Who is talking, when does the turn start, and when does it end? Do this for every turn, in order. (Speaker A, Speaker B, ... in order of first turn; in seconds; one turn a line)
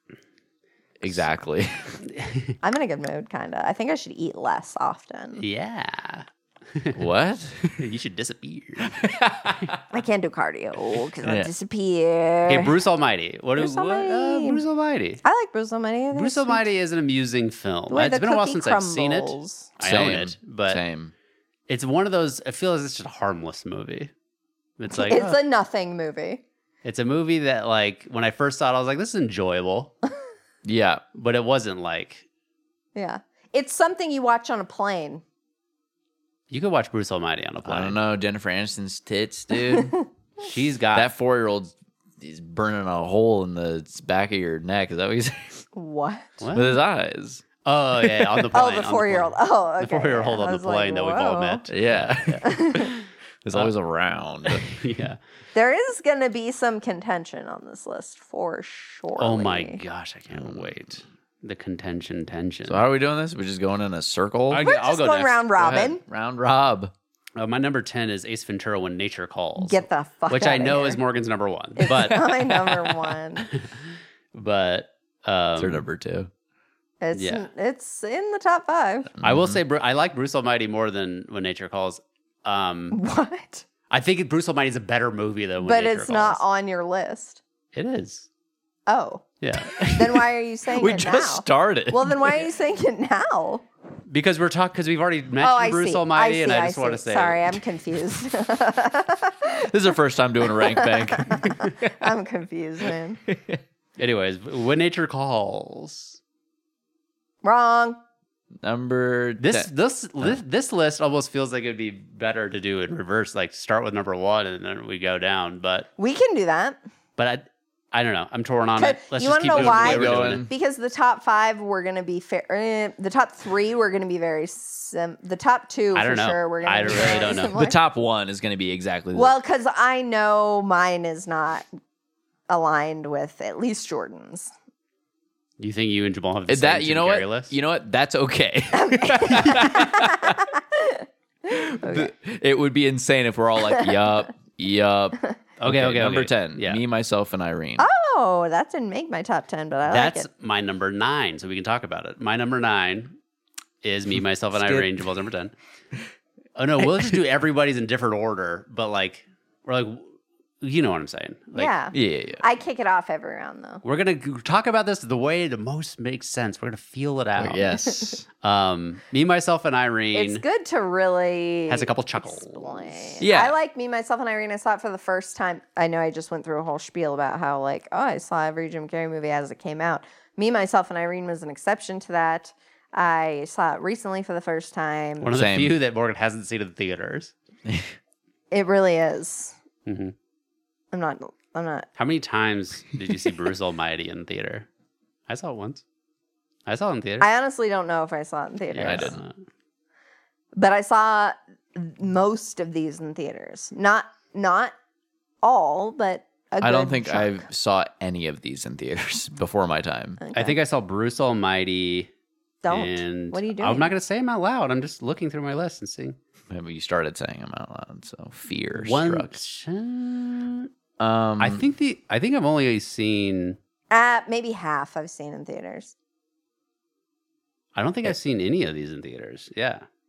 Speaker A: 1.0-2.0
Speaker B: 2.1-2.5
Speaker C: 2.6-5.4
Speaker B: 5.4-7.0
Speaker A: 6.9-7.8
Speaker B: 7.8-9.2
Speaker A: 8.9-9.8
Speaker C: 9.9-12.8
Speaker A: 11.2-11.5
Speaker B: 12.5-15.2
Speaker C: 13.6-14.6
Speaker C: 15.2-16.6
Speaker B: 16.1-20.8
Speaker C: 17.9-19.8
Speaker A: 19.8-21.1
Speaker B: 21.7-24.1
Speaker B: 24.8-25.4
Speaker C: 24.9-26.4
Speaker B: 26.8-29.9
Speaker A: 30.6-31.0
Speaker B: 31.1-32.2
Speaker C: 33.0-35.2
Speaker B: 36.5-38.0
Speaker A: 37.6-39.9
Speaker C: 39.7-40.1
Speaker B: 40.4-41.1
Speaker A: 40.9-45.6
Speaker C: 45.7-46.3
Speaker B: 46.4-46.8
Speaker A: 46.5-48.5
Speaker B: 47.6-53.7
Speaker C: 48.5-51.6
Speaker A: 51.7-52.6
Speaker C: 52.4-52.9
Speaker A: 53.4-54.7
Speaker B: 54.5-55.2
Speaker C: 55.5-59.8
Speaker B: 59.2-62.8
Speaker A: 60.3-60.7
Speaker A: 62.6-64.6
Speaker B: 64.5-65.4
Speaker C: 64.6-66.0
Speaker A: 65.6-66.9
Speaker B: 67.3-72.3
Speaker C: 69.6-71.0
Speaker C: 71.8-73.5
Speaker A: 71.9-73.1
Speaker B: 74.3-75.8
Speaker A: 75.6-76.3
Speaker C: 77.0-79.1
Speaker B: 77.1-77.5
Speaker A: 79.2-79.6
Speaker B: 79.2-83.0
Speaker C: 82.9-83.6
Speaker B: 83.9-86.4
Speaker C: 85.6-87.4
Speaker B: 87.7-88.3
Speaker C: 88.9-89.3
Speaker B: 89.4-90.2
Speaker C: 89.9-93.6
Speaker A: 90.7-92.3
Speaker B: 94.1-97.6
Speaker C: 95.4-99.7
Speaker A: 99.5-101.9
Speaker C: 100.5-103.2
Speaker A: 103.3-103.6
Speaker B: 104.0-106.2
Speaker C: 107.4-108.0
Speaker A: 108.6-109.7
Speaker B: 109.4-115.9
Speaker C: 116.0-116.8
Speaker B: 117.2-120.4
Speaker C: 118.8-127.8
Speaker A: 119.5-120.5
Speaker B: 125.9-127.5
Speaker A: 127.0-129.3
Speaker C: 129.1-131.7
Speaker C: 132.5-134.5
Speaker B: 135.6-137.5
Speaker A: 136.5-140.5
Speaker C: 138.7-141.1
Speaker A: 141.5-147.9
Speaker C: 141.8-142.1
Speaker B: 145.6-146.8
Speaker C: 147.8-150.3
Speaker B: 149.9-153.2
Speaker B: 153.8-155.5
Speaker A: 154.1-155.1
Speaker B: 156.6-161.7
Speaker A: 156.8-157.2
Speaker C: 161.5-163.8
Speaker A: 161.9-162.4
Speaker B: 163.8-167.7
Speaker A: 167.4-168.2
Speaker B: 168.4-170.4
Speaker C: 170.1-185.3
Speaker B: 171.7-173.2
Speaker A: 173.2-173.5
Speaker B: 185.2-187.3
Speaker A: 185.3-185.8
Speaker A: 187.7-187.9
Speaker C: 188.5-189.5
Speaker B: 189.8-190.1
Speaker C: 190.9-191.9
Speaker B: 192.0-194.7
Speaker B: 195.3-195.8
Speaker B: 196.7-197.3
Speaker C: 197.2-199.2
Speaker B: 198.7-199.3
Speaker A: 198.8-199.2
Speaker C: 200.5-204.7
Speaker C: 205.4-207.4
Speaker A: 206.6-210.2
Speaker C: 210.2-210.6
Speaker B: 210.3-212.1
Speaker C: 212.6-213.9
Speaker B: 212.7-216.2
Speaker A: 216.5-219.4
Speaker B: 218.7-220.7
Speaker A: 221.0-221.6
Speaker B: 221.4-223.6
Speaker C: 223.9-225.9
Speaker B: 227.7-229.8